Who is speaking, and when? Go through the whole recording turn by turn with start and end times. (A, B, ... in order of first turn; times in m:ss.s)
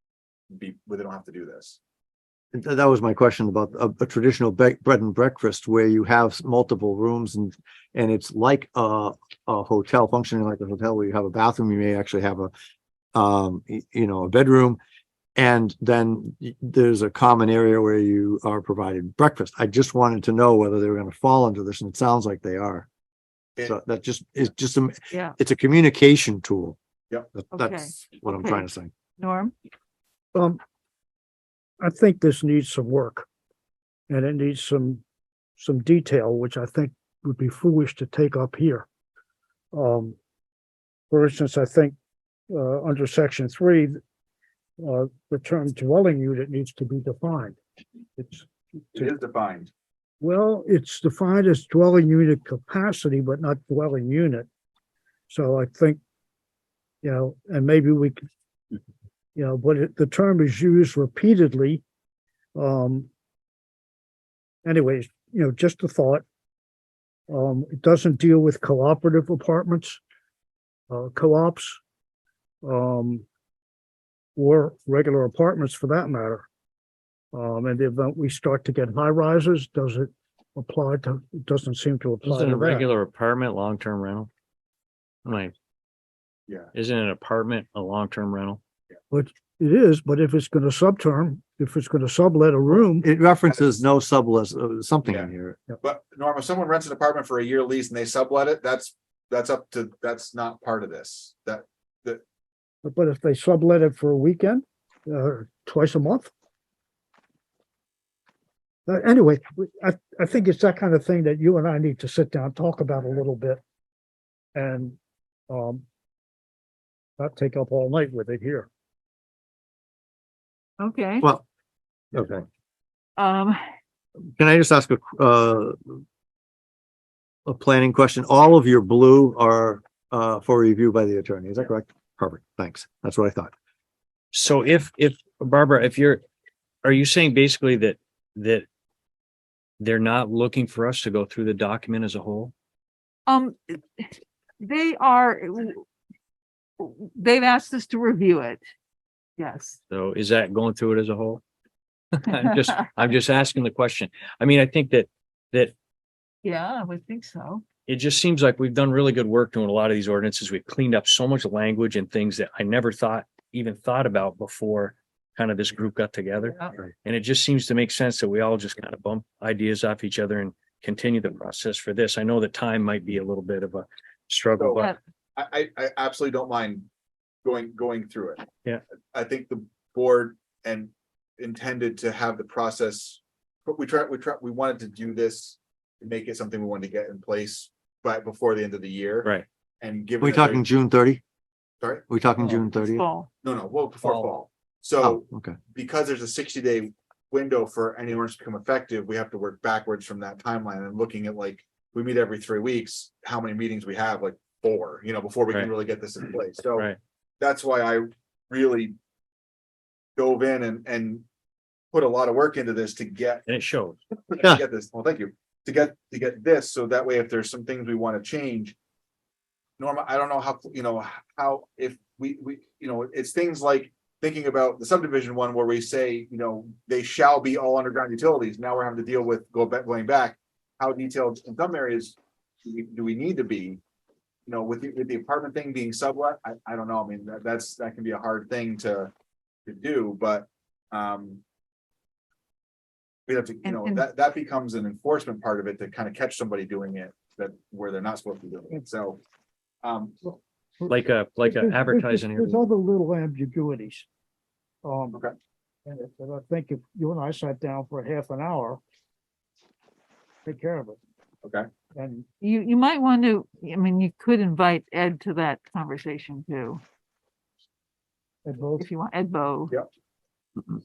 0:00.5-0:01.8 A
0:02.5-0:12.5 B
0:13.1-0:14.8 B
0:15.4-0:22.9 B
0:23.6-0:26.8 B
0:27.3-0:28.9 B
0:27.5-0:29.5 C
0:30.3-0:30.6 D
0:31.8-0:33.3 D
0:34.1-0:35.0 D
0:35.6-0:38.9 D
0:39.7-0:40.2 D
0:41.1-0:42.0 D
0:42.5-0:44.0 D
0:44.8-0:47.6 D
0:48.2-0:49.1 D
0:49.0-0:49.7 A
0:50.2-0:54.5 D
0:55.3-0:56.0 D
0:57.0-0:58.2 D
0:59.4-1:01.8 D
1:02.6-1:03.1 D
1:04.6-1:06.2 D
1:07.3-1:10.0 D
1:10.9-1:11.8 D
1:12.6-1:13.2 D
1:14.4-1:16.5 D
1:17.3-1:22.9 D
1:22.2-1:24.3 E
1:25.2-1:25.5 E
1:26.7-1:28.6 E
1:29.1-1:33.1 D
1:33.0-1:35.6 B
1:35.1-1:42.2 A
1:42.8-1:46.3 D
1:48.9-1:53.6 D
1:54.6-1:55.0 D
1:55.5-1:55.8 D
1:57.2-1:58.7 D
2:00.8-2:01.3 C
2:02.1-2:02.4 B
2:03.2-2:03.6 C
2:04.4-2:06.0 B
2:07.5-2:13.5 B
2:14.3-2:16.2 E
2:16.8-2:18.7 E
2:19.8-2:22.5 E
2:23.3-2:24.1 C
2:24.6-2:25.8 C
2:26.8-2:28.6 C
2:29.4-2:29.8 C
2:29.9-2:31.4 E
2:32.2-2:35.7 E
2:36.4-2:37.6 C
2:37.9-2:55.0 E
2:46.4-2:46.8 C
2:54.6-2:56.9 A
2:57.4-2:58.5 A
2:59.1-3:10.6 A
3:10.2-3:11.2 B
3:12.1-3:13.0 B
3:12.6-3:13.3 C
3:13.4-3:26.9 A
3:14.0-3:14.3 E
3:15.0-3:15.6 B
3:27.4-3:28.9 A
3:30.2-3:31.2 A
3:31.9-3:33.4 A
3:33.5-3:34.0 E
3:34.3-3:38.8 A
3:39.8-3:53.8 A
3:54.5-3:59.1 A
3:59.7-4:01.4 A
4:03.3-4:09.2 A
4:03.6-4:04.1 C
4:09.8-4:10.3 A
4:10.8-4:14.1 D
4:10.9-4:12.6 E
4:14.8-4:15.2 D
4:15.9-4:18.8 D
4:20.4-4:21.0 D
4:22.0-4:22.3 D
4:22.4-4:26.8 C
4:28.4-4:28.9 D
4:28.8-4:29.7 C